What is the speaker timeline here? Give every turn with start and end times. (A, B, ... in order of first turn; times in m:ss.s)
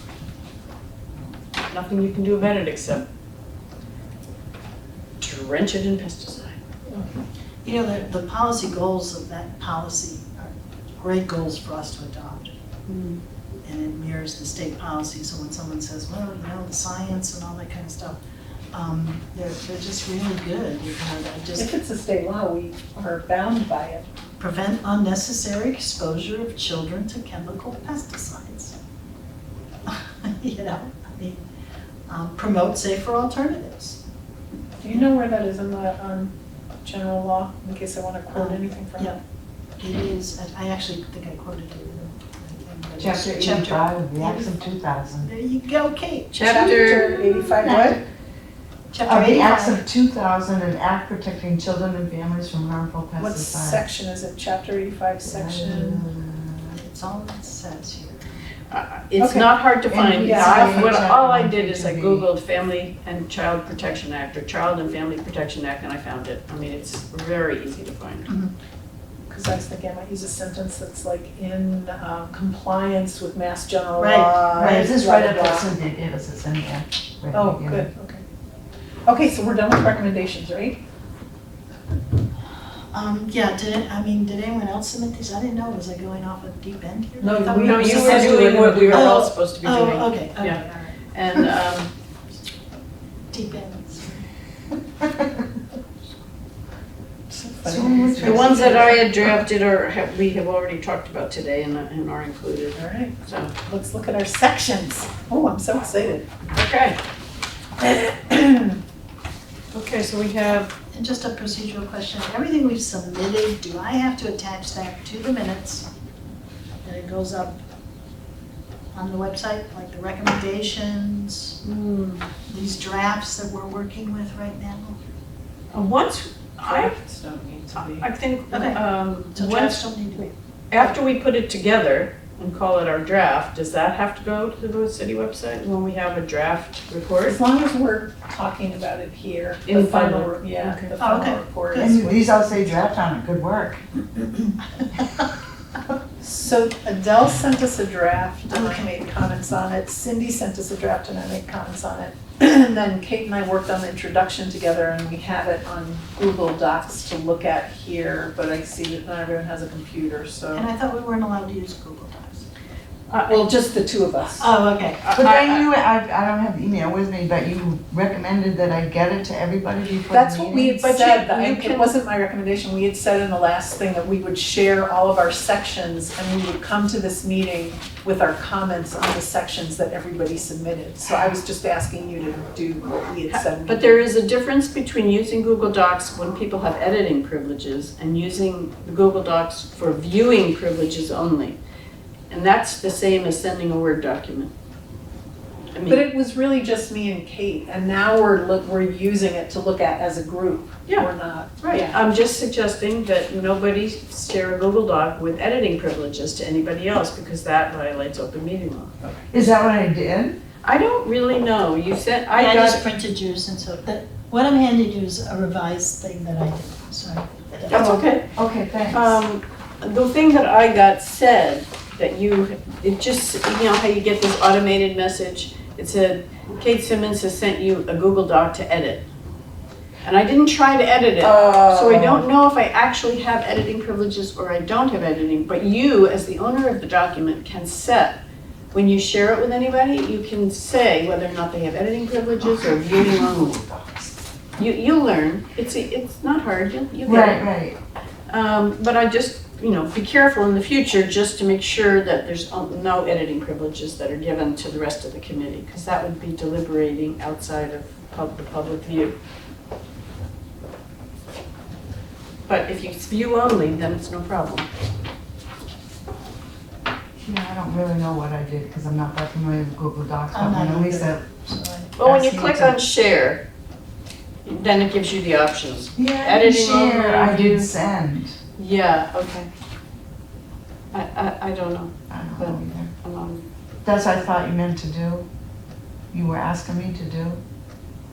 0:01.7-0:03.0 A
0:05.2-0:06.6 A
0:06.9-0:07.2 B
0:07.6-0:12.5 C
0:12.9-0:13.2 A
0:13.6-0:18.2 C
0:18.7-0:21.7 C
0:21.5-0:24.1 B
0:24.4-0:28.8 C
0:29.9-0:31.4 C
0:32.1-0:34.0 C
0:34.8-0:36.3 B
0:36.8-0:39.1 B
0:38.3-0:39.2 C
0:39.8-0:44.6 C
0:43.0-0:45.3 D
0:45.2-0:46.3 C
0:46.3-0:47.2 A
0:46.3-0:48.0 B
0:47.2-0:48.0 D
0:48.9-0:49.8 C
0:49.0-0:53.8 D
0:53.2-0:56.0 B
0:55.2-0:56.7 D
0:56.7-0:58.4 C
0:58.7-1:08.3 A
0:59.2-0:59.5 B
0:59.9-1:02.3 D
1:00.2-1:01.0 B
1:08.3-1:08.5 C
1:09.3-1:15.7 B
1:14.0-1:14.9 C
1:14.6-1:17.8 D
1:17.3-1:18.2 B
1:19.0-1:20.8 B
1:22.9-1:31.5 C
1:27.2-1:29.1 B
1:27.5-1:31.9 A
1:33.3-1:34.2 C
1:37.3-1:39.3 B
1:37.6-1:39.1 D
1:38.2-1:43.5 A
1:42.7-1:46.3 B
1:46.5-1:47.0 A
1:47.8-1:48.8 B
1:49.7-1:50.7 A
1:50.9-1:55.9 C
1:56.8-1:57.6 C
1:58.9-2:01.6 C
2:01.6-2:02.3 A
2:02.5-2:05.0 C
2:05.7-2:06.9 A
2:06.6-2:08.0 B
2:07.7-2:17.4 A
2:08.5-2:08.8 C
2:09.3-2:10.3 C
2:17.2-2:22.4 B
2:19.7-2:20.9 A
2:21.0-2:21.9 C
2:21.7-2:23.8 D
2:26.2-2:40.6 B
2:28.5-2:28.9 C
2:40.5-2:42.4 C
2:43.1-2:43.5 A
2:43.2-2:44.5 B
2:44.4-2:45.0 C
2:45.0-2:45.6 A
2:45.1-2:50.8 D
2:50.1-3:04.0 B
2:50.7-2:51.9 A
3:03.3-3:11.6 A
3:12.3-3:14.5 A
3:15.7-3:16.0 A
3:15.8-3:22.0 B
3:21.6-3:29.2 A
3:29.3-3:30.4 D
3:30.6-3:32.8 A
3:32.3-3:38.0 C
3:37.7-3:38.3 A
3:37.7-3:39.2 D
3:38.9-3:49.0 A
3:50.0-3:58.2 A
3:51.2-3:52.2 D
3:51.4-3:52.0 B
3:58.7-4:03.6 A
4:02.6-4:04.1 D
4:04.6-4:07.5 A
4:07.0-4:07.8 D
4:08.3-4:19.2 A
4:22.5-4:24.7 A
4:27.2-4:31.2 D
4:30.3-4:31.9 C
4:32.0-4:33.4 A
4:32.0-4:32.8 D
4:34.4-4:37.7 A
4:36.0-4:38.4 D
4:38.6-4:39.5 A
4:40.9-4:43.4 A
4:42.1-4:42.9 D
4:43.8-4:45.2 D
4:46.1-4:47.4 D